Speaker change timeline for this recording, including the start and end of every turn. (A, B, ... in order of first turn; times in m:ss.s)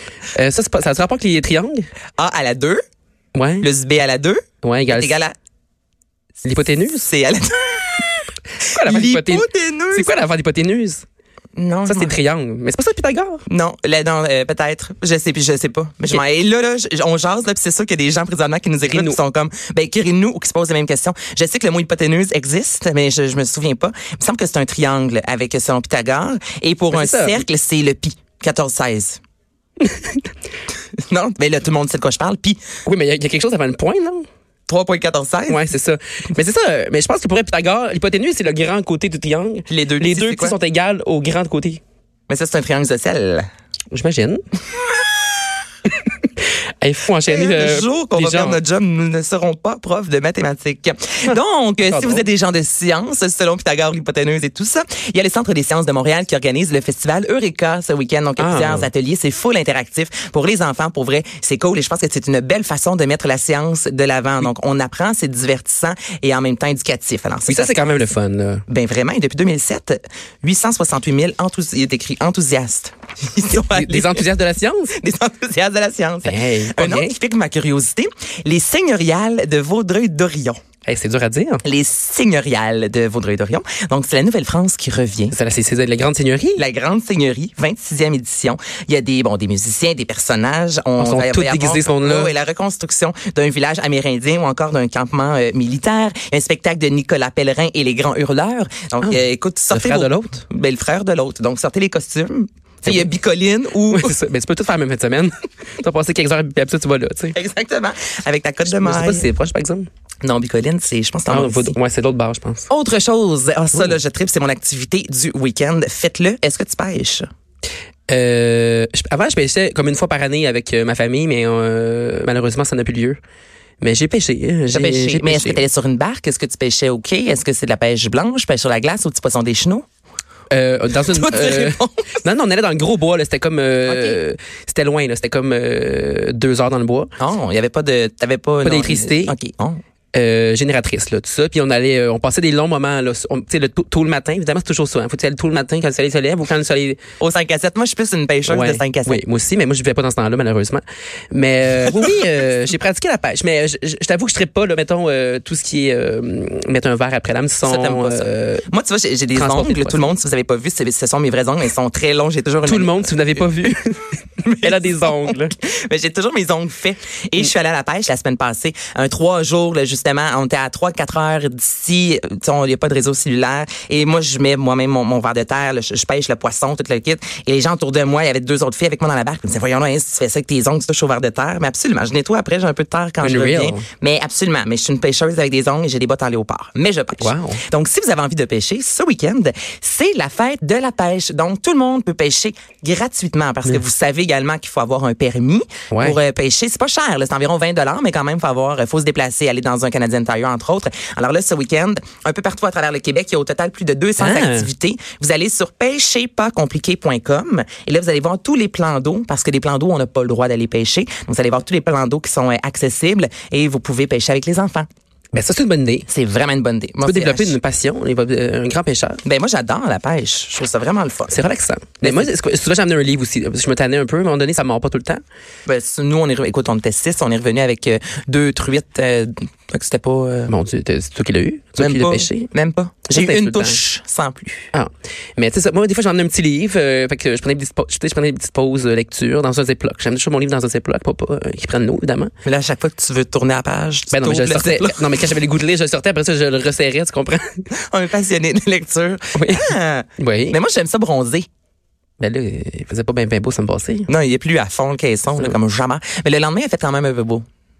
0:00.3-0:01.9 A
0:02.2-0:02.8 B
0:03.4-0:03.7 A
0:03.6-0:05.4 B
0:04.6-0:05.2 A
0:06.4-0:07.1 A
0:06.8-0:08.3 B
0:08.6-0:11.0 A
0:08.8-0:10.2 B
0:11.6-0:12.2 B
0:11.9-0:13.4 A
0:13.5-0:29.2 B
0:18.9-0:19.2 A
0:26.9-0:27.4 A
0:29.8-0:30.2 A
0:31.1-0:32.6 B
0:32.9-0:34.3 A
0:34.7-0:35.6 B
0:35.5-0:41.8 A
0:39.7-0:40.6 B
0:42.3-0:43.5 B
0:43.9-0:44.4 A
0:45.9-0:48.6 A
0:47.3-1:07.8 B
0:51.9-0:52.2 A
0:58.4-0:58.9 A
1:07.5-1:08.6 A
1:08.7-1:14.2 B
1:13.6-1:15.0 A
1:14.9-1:20.6 B
1:16.2-1:17.2 A
1:20.9-1:21.6 A
1:21.6-1:25.4 B
1:25.3-1:26.6 A
1:26.6-1:44.1 B
1:31.0-1:32.3 A
1:39.7-1:40.4 A
1:43.9-1:47.4 A
1:47.3-1:49.3 B
1:48.7-1:49.9 A
1:50.2-1:51.8 B
1:51.3-1:52.7 A
1:52.7-1:57.3 B
1:58.1-2:03.2 A
2:03.8-2:05.6 A
2:04.7-2:09.8 B
2:10.5-2:17.1 A
2:11.0-2:12.2 B
2:13.9-2:14.2 B
2:17.2-2:19.8 B
2:18.6-2:19.4 A
2:20.1-2:27.0 A
2:27.2-2:29.2 B
2:28.5-2:38.7 A
2:37.6-2:43.2 B
2:39.3-2:40.1 A
2:42.6-2:45.6 A
2:44.4-3:34.9 B
3:03.2-3:03.8 A
3:07.2-3:07.6 A
3:15.9-3:16.2 A
3:24.2-3:24.7 A
3:35.3-3:36.1 A
3:36.1-3:37.6 B
3:37.0-3:39.2 A
3:39.2-3:41.3 B
3:41.3-3:45.2 A
3:42.0-3:42.3 B
3:45.7-3:50.5 B
3:50.5-3:52.5 A
3:51.8-3:54.7 B
3:53.1-3:53.8 A
3:54.7-4:02.3 A
4:02.4-4:05.0 B
4:04.1-4:07.5 A
4:07.7-4:11.5 B
4:09.4-4:10.6 A
4:12.2-4:14.1 A
4:14.1-4:17.4 B